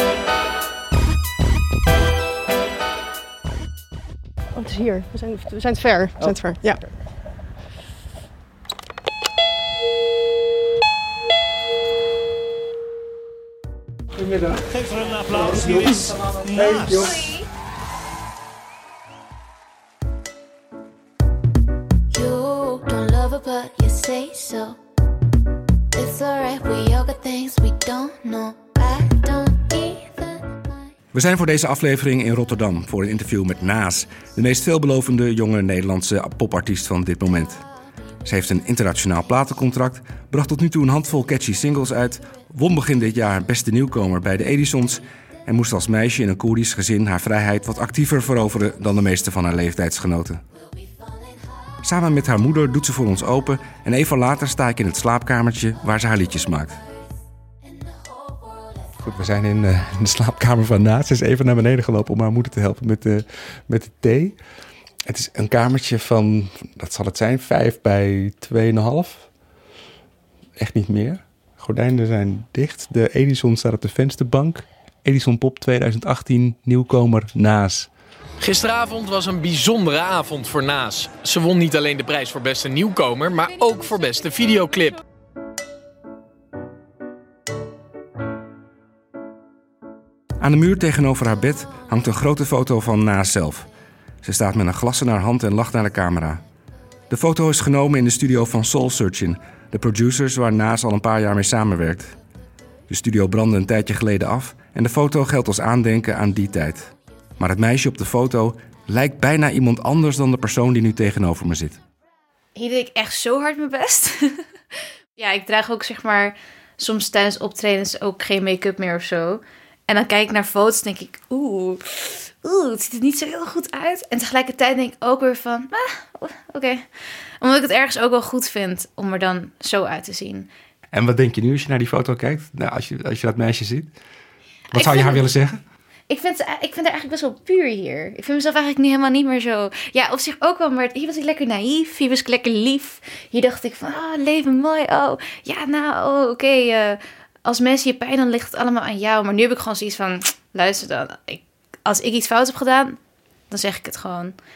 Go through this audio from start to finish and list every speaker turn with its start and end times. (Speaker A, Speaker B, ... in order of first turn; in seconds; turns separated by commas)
Speaker A: 4.6-6.8, Speaker B: 14.2-14.7, Speaker C: 14.6-17.2, Speaker B: 15.3-17.2, Speaker D: 17.0-17.5, Speaker D: 22.1-24.8, Speaker D: 25.9-30.6, Speaker B: 31.1-37.6, Speaker B: 38.2-50.4, Speaker B: 51.8-56.8, Speaker B: 59.0-64.4, Speaker B: 65.1-69.3, Speaker B: 70.6-77.9, Speaker E: 78.4-85.0, Speaker B: 90.4-93.7, Speaker B: 94.2-96.4, Speaker B: 97.1-102.2, Speaker B: 102.9-111.8, Speaker D: 112.6-114.4, Speaker D: 115.2-126.9, Speaker D: 127.4-130.5, Speaker B: 130.9-133.9, Speaker D: 134.7-135.2, Speaker B: 134.7-135.6, Speaker D: 136.1-153.0, Speaker D: 153.5-154.3